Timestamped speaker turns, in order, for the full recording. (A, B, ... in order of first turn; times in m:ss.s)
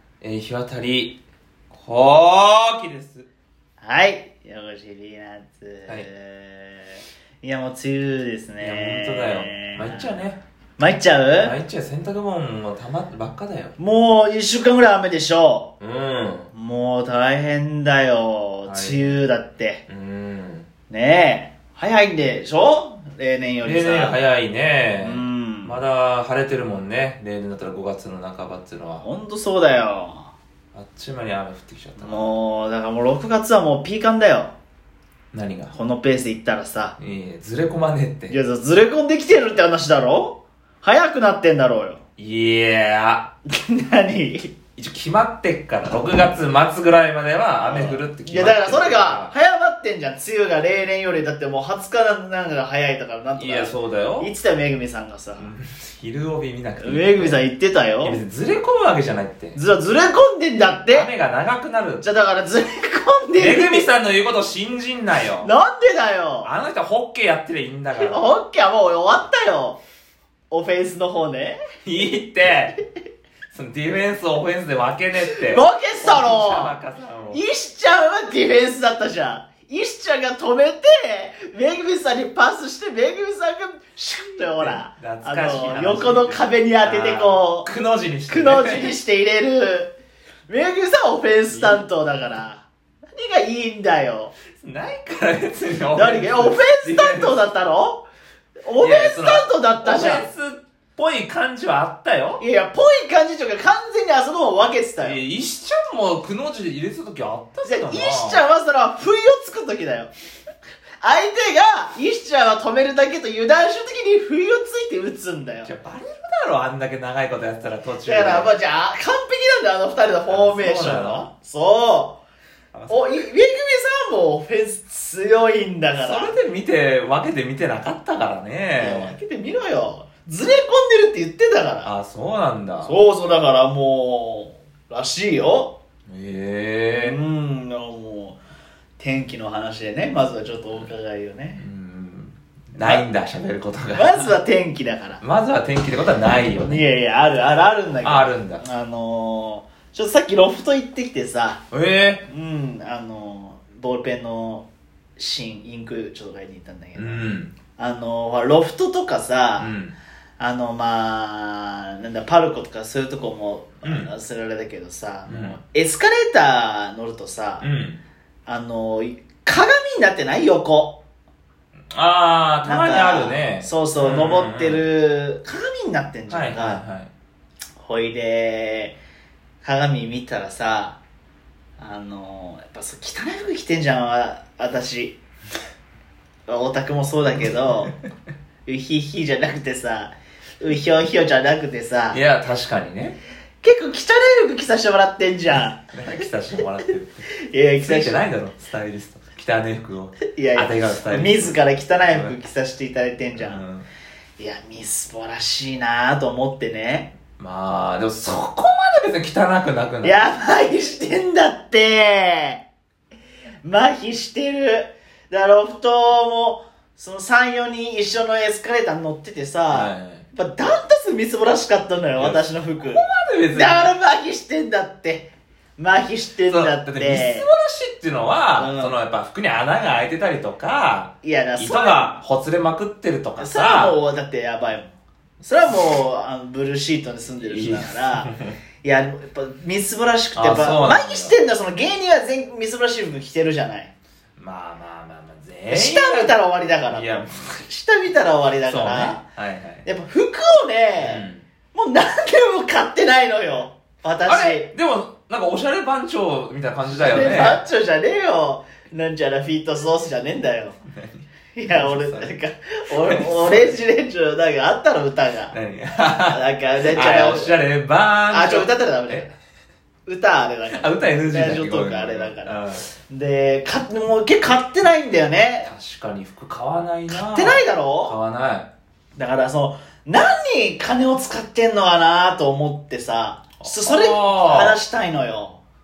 0:00.2-0:01.2 A
0:01.7-0:03.3 A
0:03.8-0:10.2 B
0:08.6-0:10.4 A
0:10.8-0:11.6 B
0:11.4-0:13.8 A
0:13.8-0:15.8 B
0:15.8-0:16.5 A
0:16.5-0:19.8 B
0:18.7-0:19.2 A
0:19.9-0:20.7 A
0:20.9-0:24.2 B
0:23.6-0:29.1 A
0:25.0-0:25.8 B
0:29.0-0:30.3 B
0:30.7-0:32.3 A
0:32.0-0:34.6 B
0:35.3-0:35.7 A
0:35.7-0:37.0 B
0:37.0-0:38.4 A
0:38.3-0:42.0 B
0:42.2-0:43.3 A
0:43.5-0:44.5 B
0:44.8-0:49.3 A
0:47.6-0:55.5 B
0:53.4-0:54.3 A
0:55.4-0:57.4 A
0:56.8-0:58.2 B
0:58.0-0:59.6 A
0:59.5-1:01.1 B
1:00.9-1:02.0 A
1:02.0-1:03.9 B
1:03.4-1:05.5 A
1:05.4-1:06.5 B
1:06.4-1:08.3 A
1:07.9-1:09.8 B
1:10.5-1:11.6 B
1:11.9-1:12.8 A
1:13.5-1:17.4 A
1:15.4-1:16.8 B
1:17.3-1:27.7 B
1:24.6-1:29.0 A
1:28.3-1:30.0 B
1:30.5-1:34.3 B
1:31.5-1:31.8 A
1:34.6-1:37.4 A
1:35.9-1:38.0 B
1:38.7-1:40.3 B
1:38.8-1:42.4 A
1:42.4-1:45.2 B
1:45.0-1:48.4 A
1:47.6-1:50.1 B
1:51.0-1:55.7 B
1:55.6-1:58.5 A
1:58.0-2:02.2 B
2:00.3-2:01.3 A
2:02.7-2:03.3 A
2:02.9-2:06.4 B
2:06.0-2:09.2 A
2:08.8-2:11.9 B
2:11.8-2:12.9 A
2:12.8-2:15.8 B
2:16.1-2:17.2 A
2:17.0-2:18.4 B
2:19.0-2:21.6 B
2:21.6-2:24.3 A
2:24.0-2:25.2 B
2:25.2-2:26.8 A
2:26.6-2:31.6 B
2:28.0-2:28.6 A
2:31.7-2:32.3 A
2:32.3-2:39.7 B
2:37.0-2:37.5 A
2:39.6-2:40.0 A
2:40.4-2:47.7 B
2:43.8-2:44.1 A
2:45.3-2:45.6 A
2:47.6-2:48.0 A
2:48.5-2:51.0 B
2:51.9-2:54.8 A
2:52.6-2:56.8 B
2:56.3-2:57.1 A
2:57.8-2:59.0 B
2:59.6-3:01.0 B
3:01.8-3:05.2 B
3:06.5-3:08.0 B
3:08.7-3:12.2 B
3:12.1-3:13.2 A
3:13.6-3:15.9 B
3:15.8-3:17.2 A
3:17.5-3:18.2 B
3:17.8-3:22.4 A
3:20.3-3:23.6 B
3:23.4-3:23.9 A
3:24.4-3:27.1 B
3:27.4-3:30.2 A
3:30.0-3:32.6 B
3:33.6-3:47.5 B
3:39.7-3:40.2 A
3:42.2-3:43.9 A
3:46.5-3:54.0 A
3:48.6-3:49.0 B
3:51.2-3:52.1 B
3:53.4-3:58.3 B
3:57.4-3:58.6 A
3:58.8-4:03.9 B
4:00.4-4:01.4 A
4:04.4-4:06.4 A
4:05.7-4:09.2 B
4:06.9-4:07.5 A
4:08.6-4:09.9 A
4:09.8-4:14.7 B
4:11.0-4:11.5 A
4:14.3-4:17.6 A
4:16.9-4:20.8 B
4:21.0-4:21.2 A
4:21.6-4:25.5 B
4:21.8-4:22.3 A
4:22.9-4:23.8 A
4:25.5-4:29.2 A
4:26.3-4:27.6 B
4:28.3-4:29.3 B
4:30.1-4:35.7 B
4:30.7-4:32.8 A
4:35.6-4:38.7 A
4:37.1-4:38.2 B
4:39.2-4:45.6 B
4:43.6-4:44.8 A